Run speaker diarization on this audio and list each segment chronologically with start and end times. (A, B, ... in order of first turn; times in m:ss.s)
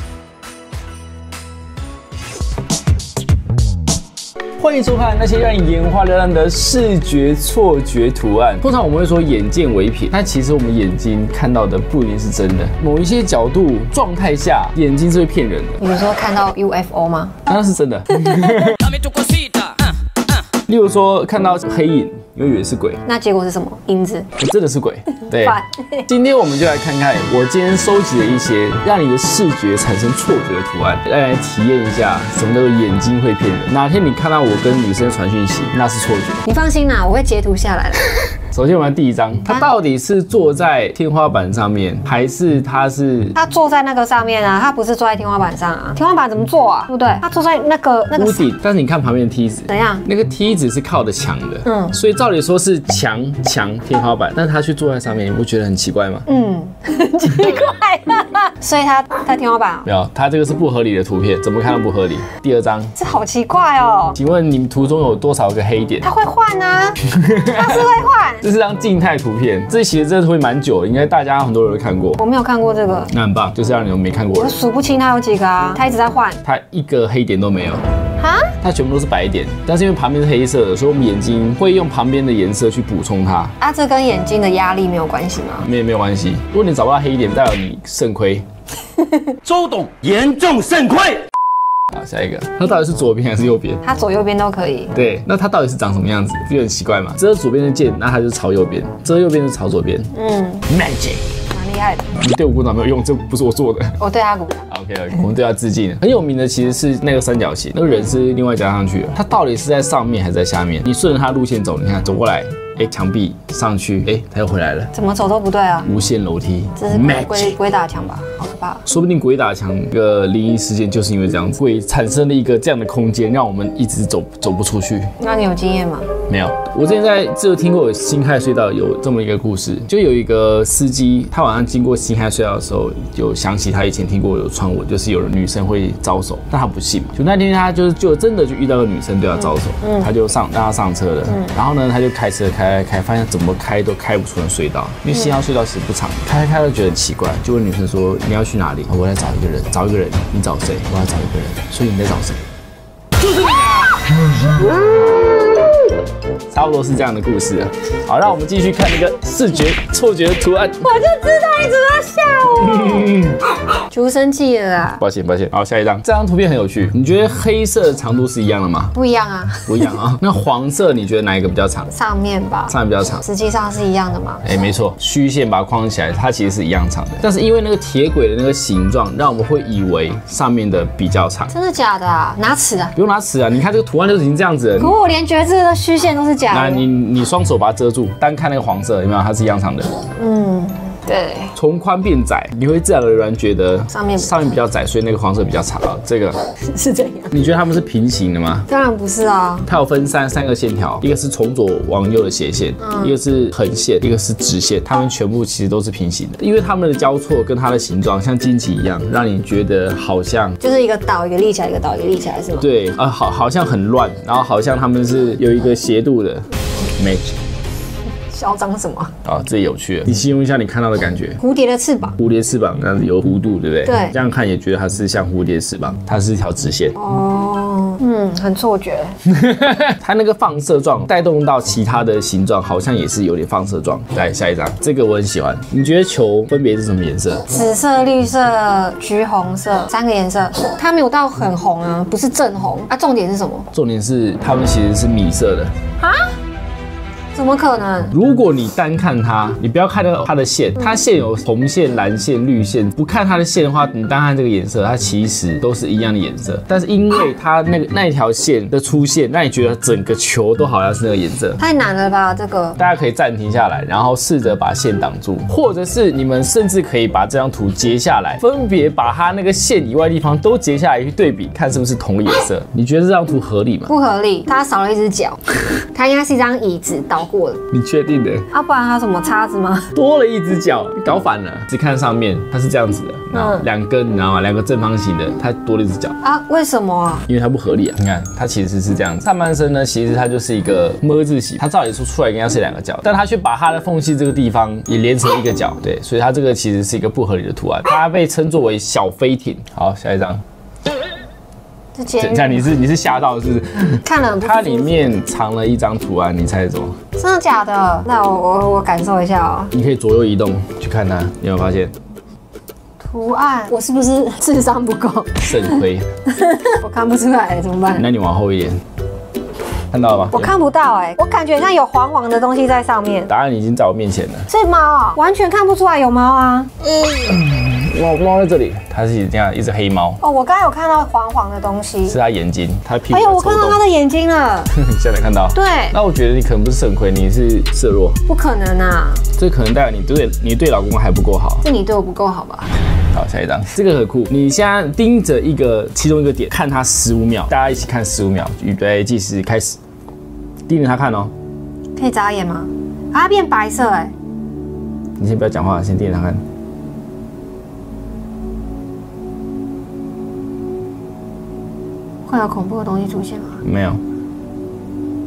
0:04.6-0:15.8 A
0:15.8-0:17.4 B
0:17.5-0:18.9 A
0:18.2-0:18.6 B
0:19.0-0:19.7 C
0:20.7-0:23.0 A
0:23.0-0:24.3 B
0:24.4-0:36.4 A
0:25.4-0:26.1 B
0:36.5-0:38.2 B
0:38.5-0:43.4 A
0:43.4-0:48.5 B
0:48.2-0:56.3 A
0:49.7-0:50.1 B
0:51.6-0:52.0 B
0:56.3-0:59.9 B
0:59.8-1:02.9 A
1:03.0-1:04.2 B
1:04.2-1:06.1 A
1:06.0-1:08.4 B
1:07.0-1:07.9 A
1:08.4-1:12.2 A
1:12.2-1:13.1 B
1:13.1-1:14.6 A
1:14.4-1:16.4 B
1:16.4-1:17.8 A
1:18.2-1:18.6 B
1:18.6-1:23.6 A
1:23.6-1:25.7 B
1:25.6-1:28.5 A
1:29.0-1:29.4 B
1:29.4-1:31.2 C
1:31.9-1:33.8 A
1:33.8-1:34.9 B
1:34.9-1:40.1 A
1:40.1-1:40.7 B
1:40.7-1:41.3 A
1:41.5-1:42.1 B
1:42.1-1:44.0 A
1:44.0-1:44.7 B
1:44.7-1:54.9 A
1:54.9-1:55.9 B
1:55.8-1:57.6 A
1:56.8-1:58.8 B
1:58.9-2:05.2 A
2:05.2-2:06.1 B
2:06.3-2:32.4 A
2:19.8-2:20.1 B
2:33.4-2:33.9 A
2:36.5-2:40.9 A
2:40.8-2:43.2 B
2:42.6-2:43.4 A
2:43.9-2:45.0 B
2:45.0-2:49.0 A
2:49.0-2:50.0 B
2:49.7-2:51.9 A
2:51.9-2:54.4 B
2:52.7-2:53.2 A
2:54.4-3:01.5 A
3:01.5-3:02.9 B
3:03.0-3:05.0 A
3:04.8-3:06.9 B
3:06.5-3:09.9 A
3:10.2-3:11.5 B
3:11.6-3:16.4 A
3:13.9-3:14.4 B
3:16.6-3:17.4 B
3:17.3-3:18.7 A
3:18.7-3:19.7 B
3:19.7-3:30.6 A
3:22.8-3:23.2 B
3:30.6-3:32.7 B
3:32.6-3:37.4 A
3:38.3-3:39.1 B
3:39.2-3:41.4 A
3:41.4-3:42.2 B
3:42.2-3:47.0 A
3:43.8-3:44.2 B
3:47.0-3:49.2 B
3:49.3-3:57.5 A
3:57.5-4:03.7 B
4:03.7-4:05.7 A
4:06.0-4:06.4 B
4:07.3-4:08.2 B
4:08.1-4:21.6 A
4:21.6-4:22.8 B
4:22.8-4:33.9 A
4:33.9-4:35.4 B
4:35.9-4:37.6 B
4:37.7-4:38.5 A
4:38.5-4:39.9 B
4:39.9-4:46.2 A
4:43.4-4:43.7 B
4:46.2-4:47.3 B
4:47.3-5:00.4 A
5:02.0-5:02.7 B
5:02.2-5:07.0 A
5:04.0-5:05.1 B
5:07.2-5:09.7 B
5:09.7-5:11.9 A
5:13.0-5:18.1 B
5:15.4-5:16.1 A
5:17.9-5:18.8 A
5:19.9-5:20.5 A
5:20.3-5:23.3 B
5:23.3-5:24.5 A
5:24.5-5:26.8 B
5:27.0-5:30.2 A
5:30.2-5:32.2 B
5:32.1-5:33.8 A
5:33.1-5:34.7 B
5:34.7-5:38.2 A
5:35.6-5:36.0 B
5:38.3-5:39.3 B
5:39.4-5:41.6 A
5:41.6-5:42.7 B
5:43.1-5:49.8 A
5:50.7-5:51.3 A
5:52.0-5:54.1 B
5:55.2-5:56.4 A
6:02.2-6:03.6 B
6:03.6-6:04.0 A